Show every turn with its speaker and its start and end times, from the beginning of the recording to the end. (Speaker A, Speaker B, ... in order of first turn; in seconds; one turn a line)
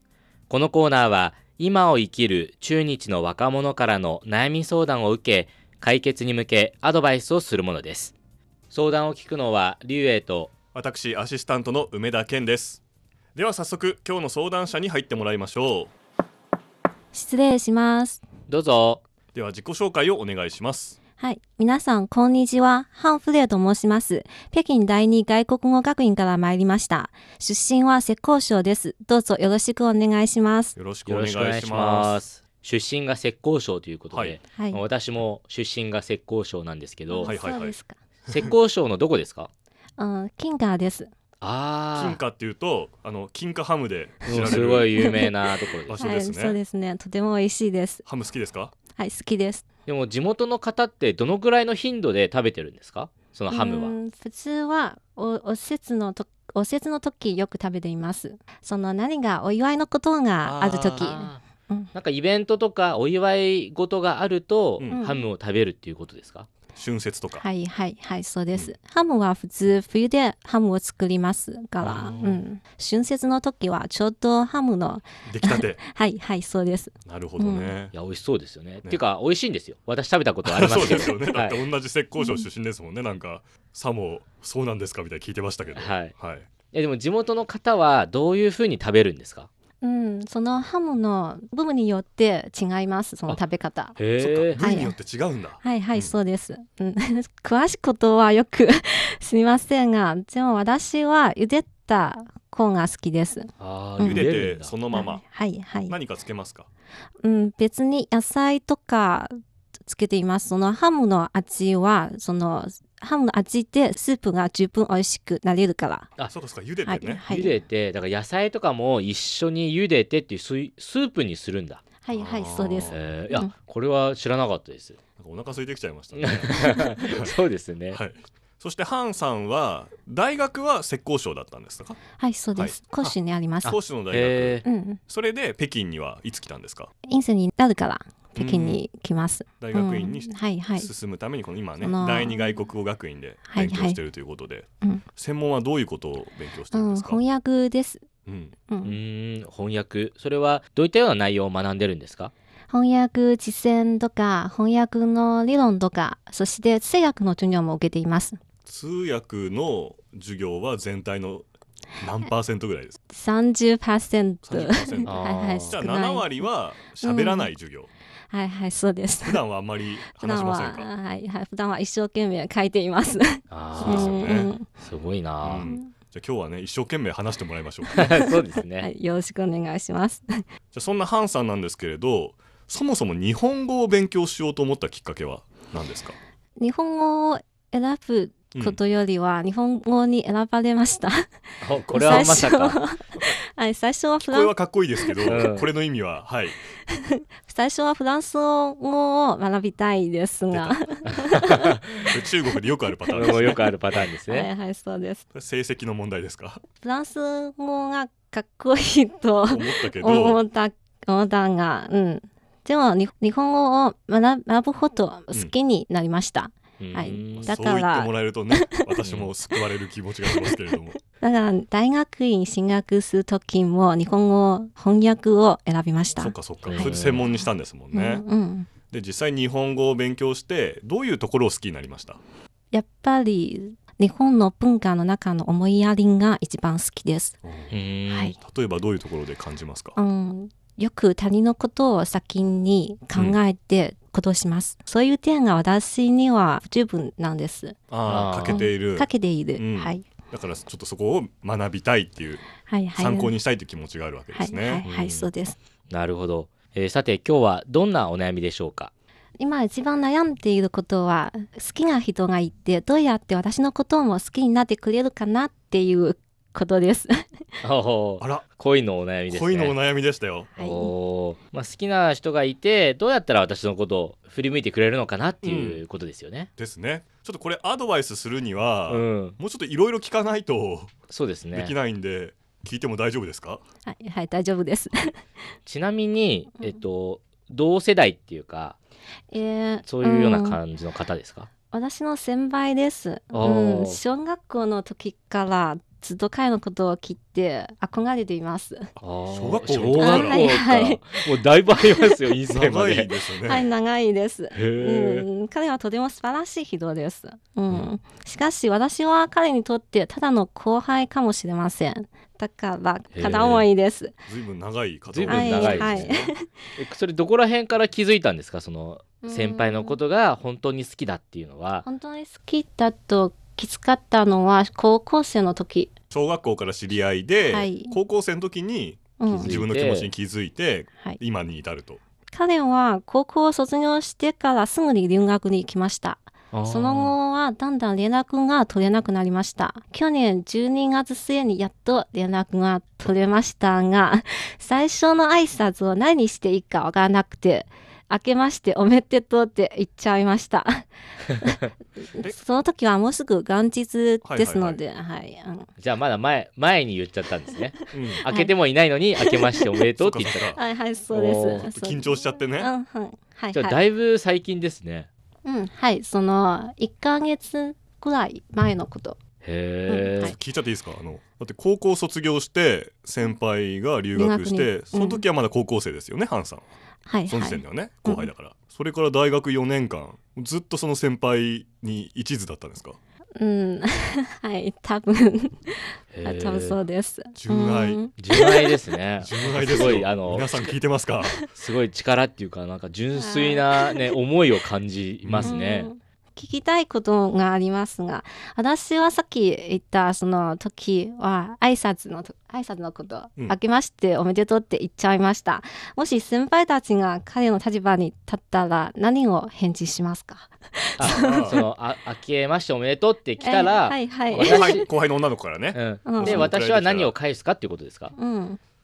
Speaker A: 0.5-8.1
Speaker A: 8.7-10.5
Speaker B: 10.7-12.8
Speaker B: 13.3-15.9
Speaker C: 17.1-18.2
Speaker A: 18.5-19.0
Speaker B: 19.3-21.0
Speaker C: 21.2-30.8
Speaker B: 30.8-32.2
Speaker A: 31.1-37.4
Speaker B: 34.1-34.4
Speaker C: 34.5-34.8
Speaker C: 37.1-38.0
Speaker B: 37.2-37.7
Speaker A: 38.3-39.5
Speaker C: 40.0-41.1
Speaker A: 41.4-42.2
Speaker B: 41.9-45.1
Speaker A: 44.2-45.9
Speaker C: 44.9-45.3
Speaker B: 45.9-46.6
Speaker C: 46.0-48.0
Speaker B: 48.0-48.7
Speaker C: 48.9-49.6
Speaker A: 49.9-53.9
Speaker C: 53.5-61.9
Speaker B: 60.4-61.1
Speaker A: 61.0-61.4
Speaker A: 61.9-66.5
Speaker C: 64.9-65.3
Speaker B: 66.7-67.5
Speaker C: 67.3-77.7
Speaker B: 71.8-72.3
Speaker B: 75.2-75.8
Speaker B: 77.0-77.9
Speaker A: 77.9-81.6
Speaker B: 80.4-86.5
Speaker C: 82.2-82.5
Speaker A: 85.8-86.1
Speaker A: 86.7-89.5
Speaker C: 89.8-94.0
Speaker A: 94.0-94.6
Speaker B: 94.2-96.1
Speaker C: 94.6-94.9
Speaker C: 95.6-104.2
Speaker A: 103.6-104.7
Speaker B: 104.0-105.3
Speaker C: 104.9-105.9
Speaker B: 105.9-106.7
Speaker C: 107.2-109.3
Speaker C: 109.9-116.1
Speaker B: 116.3-117.3
Speaker C: 116.8-117.5
Speaker A: 117.3-121.8
Speaker C: 122.0-123.5
Speaker B: 122.1-123.0
Speaker A: 122.9-125.0
Speaker B: 125.2-127.3
Speaker A: 126.2-128.0
Speaker B: 127.9-132.0
Speaker C: 132.2-133.8
Speaker B: 132.6-136.9
Speaker A: 133.7-134.6
Speaker C: 134.6-135.0
Speaker C: 137.1-140.9
Speaker B: 138.3-138.8
Speaker B: 139.6-147.2
Speaker C: 141.8-142.5
Speaker C: 143.5-144.0
Speaker C: 146.7-148.0
Speaker B: 148.2-148.5
Speaker C: 148.7-149.0
Speaker A: 148.8-152.3
Speaker C: 152.7-158.4
Speaker B: 158.7-161.4
Speaker B: 162.0-163.0
Speaker C: 163.1-166.4
Speaker B: 164.4-167.9
Speaker A: 165.0-165.8
Speaker C: 167.0-167.5
Speaker C: 168.3-169.4
Speaker B: 169.2-170.9
Speaker C: 170.1-174.7
Speaker A: 173.5-175.7
Speaker B: 173.7-174.5
Speaker B: 175.4-178.1
Speaker C: 175.6-175.9
Speaker A: 177.9-178.9
Speaker C: 178.8-180.4
Speaker B: 180.7-186.2
Speaker C: 186.6-191.3
Speaker B: 188.5-188.8
Speaker A: 191.6-192.8
Speaker B: 191.9-192.5
Speaker C: 191.9-195.3
Speaker B: 194.3-196.6
Speaker A: 195.3-195.7
Speaker C: 197.4-201.7
Speaker B: 200.5-201.2
Speaker A: 201.3-202.1
Speaker B: 202.1-203.6
Speaker C: 203.1-203.5
Speaker A: 203.1-204.5
Speaker C: 204.3-205.2
Speaker B: 205.3-206.6
Speaker C: 206.8-218.7
Speaker B: 209.5-210.4
Speaker A: 216.8-217.6
Speaker B: 217.3-221.0
Speaker A: 219.0-219.3
Speaker C: 221.2-228.7
Speaker B: 226.2-228.2
Speaker A: 226.6-227.2
Speaker B: 228.9-232.2
Speaker C: 232.7-237.4
Speaker B: 237.4-237.7
Speaker A: 237.7-238.3
Speaker C: 238.1-238.3
Speaker B: 238.4-239.9
Speaker C: 240.0-247.8
Speaker B: 247.9-252.4
Speaker A: 248.1-248.6
Speaker C: 248.5-250.1
Speaker C: 252.6-253.3
Speaker B: 252.9-254.8
Speaker C: 254.3-255.6
Speaker A: 254.8-255.3
Speaker A: 255.9-258.9
Speaker C: 259.4-267.4
Speaker A: 267.6-269.8
Speaker B: 268.2-268.4
Speaker B: 269.3-270.5
Speaker C: 270.6-270.9
Speaker A: 270.6-276.5
Speaker B: 275.4-275.8
Speaker B: 276.6-280.9
Speaker A: 278.9-279.4
Speaker A: 281.1-281.7
Speaker B: 281.5-283.6
Speaker C: 283.8-285.2
Speaker A: 285.6-288.8
Speaker C: 289.3-290.6
Speaker A: 289.8-291.5
Speaker C: 291.7-298.9
Speaker A: 293.3-294.0
Speaker A: 299.0-303.1
Speaker B: 299.3-300.4
Speaker C: 300.0-301.3
Speaker B: 302.5-303.7
Speaker C: 303.4-314.2
Speaker A: 304.5-305.2
Speaker A: 313.1-313.6
Speaker B: 314.3-316.3
Speaker A: 315.1-316.1
Speaker C: 315.3-316.6
Speaker A: 316.8-321.9
Speaker C: 319.2-320.0
Speaker C: 321.8-325.9
Speaker B: 326.1-332.0
Speaker C: 327.4-328.0
Speaker C: 329.2-329.6
Speaker A: 329.3-330.1
Speaker C: 332.3-350.9
Speaker A: 336.5-337.1
Speaker C: 351.4-355.7
Speaker B: 354.2-354.8
Speaker A: 355.8-360.6
Speaker B: 357.9-358.2
Speaker C: 358.2-358.5
Speaker B: 360.0-360.6
Speaker C: 360.5-363.8
Speaker A: 361.1-361.7
Speaker B: 361.6-362.7
Speaker A: 363.5-365.1
Speaker C: 365.4-369.2
Speaker A: 369.4-370.4
Speaker C: 369.9-370.4
Speaker B: 370.2-376.7
Speaker C: 374.1-375.2
Speaker C: 377.1-378.3
Speaker B: 377.3-383.0
Speaker C: 383.4-388.7
Speaker A: 386.1-386.8
Speaker B: 387.3-388.0
Speaker A: 388.2-390.7
Speaker B: 389.2-391.4
Speaker A: 391.5-395.9
Speaker C: 393.1-394.1
Speaker B: 395.2-395.5
Speaker C: 395.4-411.6
Speaker A: 411.0-414.9
Speaker B: 411.0-411.6
Speaker C: 413.4-414.8
Speaker B: 414.4-417.1
Speaker A: 415.7-418.1
Speaker C: 416.1-416.5
Speaker C: 418.1-418.6